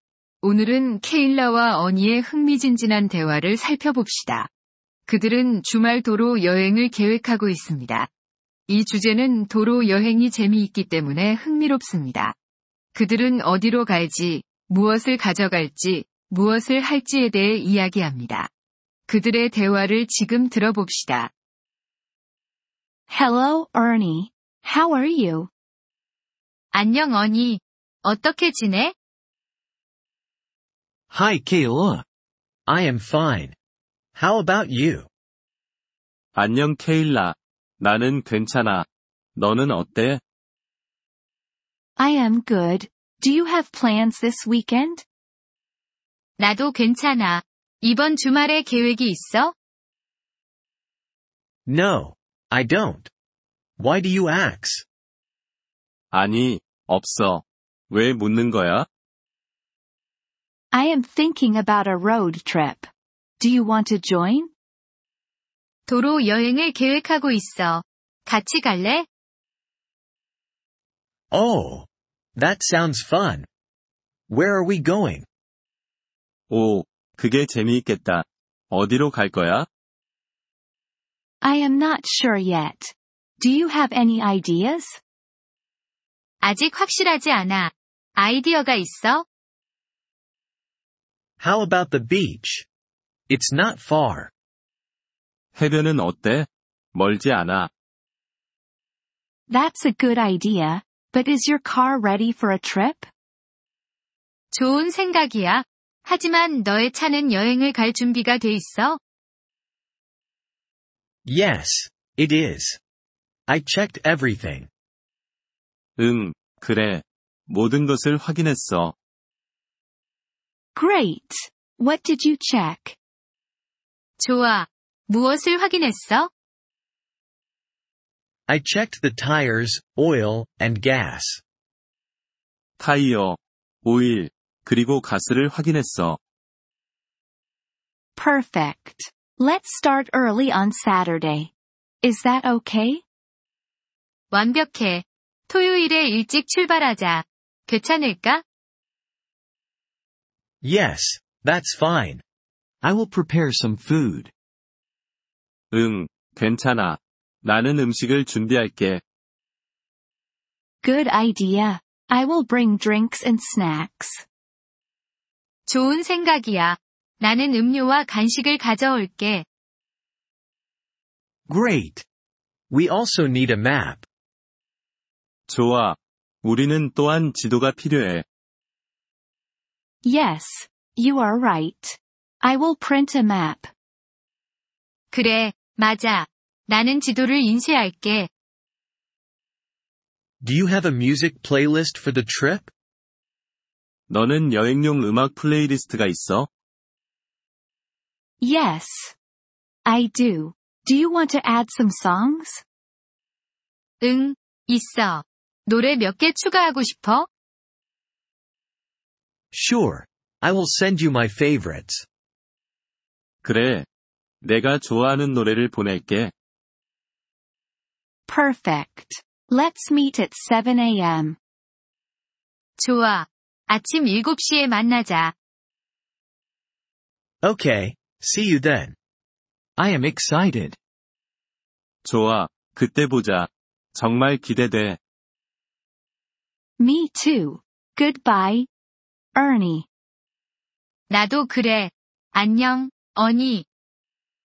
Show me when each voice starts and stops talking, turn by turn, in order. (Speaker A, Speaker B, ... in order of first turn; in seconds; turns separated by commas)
Speaker A: 0.4-4.5, Speaker A: 5.0-8.1, Speaker A: 8.7-12.3, Speaker A: 12.9-18.5, Speaker A: 19.1-21.3, Speaker B: 23.1-25.5, Speaker A: 26.7-28.9, Speaker C: 31.1-32.0, Speaker C: 32.7-33.5, Speaker C: 34.1-35.1, Speaker D: 36.3-40.2, Speaker B: 42.0-45.0, Speaker A: 46.4-49.5, Speaker C: 51.7-53.1, Speaker C: 53.8-54.9, Speaker D: 56.1-58.9, Speaker B: 60.7-64.5, Speaker A: 65.9-69.0, Speaker C: 71.3-73.5, Speaker C: 74.3-75.3, Speaker D: 76.5-79.7, Speaker B: 81.4-85.0, Speaker A: 86.4-89.2, Speaker C: 91.4-92.7, Speaker C: 93.3-94.3, Speaker D: 95.5-97.7, Speaker B: 99.5-103.1, Speaker A: 104.5-109.0, Speaker C: 111.2-112.8, Speaker C: 113.5-114.7, Speaker D: 116.0-118.9, Speaker B: 120.7-123.0, Speaker A: 124.2-126.3, Speaker C: 128.5-131.4, Speaker D: 132.8-136.2, Speaker B: 138.2-143.0, Speaker A: 144.3-148.4, Speaker C: 150.6-152.2, Speaker C: 152.8-154.3, Speaker D: 155.7-159.0, Speaker B: 160.8-164.2, Speaker A: 165.7-169.4, Speaker C: 171.5-172.1, Speaker C: 172.7-174.1, Speaker D: 175.5-178.2, Speaker B: 180.0-183.7, Speaker A: 185.1-188.3, Speaker C: 190.4-192.7, Speaker D: 194.1-196.5, Speaker B: 198.4-199.1, Speaker B: 199.8-202.6, Speaker A: 204.0-207.3, Speaker C: 209.5-212.1, Speaker D: 213.4-213.9, Speaker D: 214.4-216.3, Speaker B: 218.3-221.4, Speaker A: 222.8-225.3, Speaker C: 227.4-228.9, Speaker C: 229.8-230.8, Speaker D: 232.0-235.0, Speaker B: 236.8-238.7, Speaker B: 239.3-239.9, Speaker A: 241.1-243.7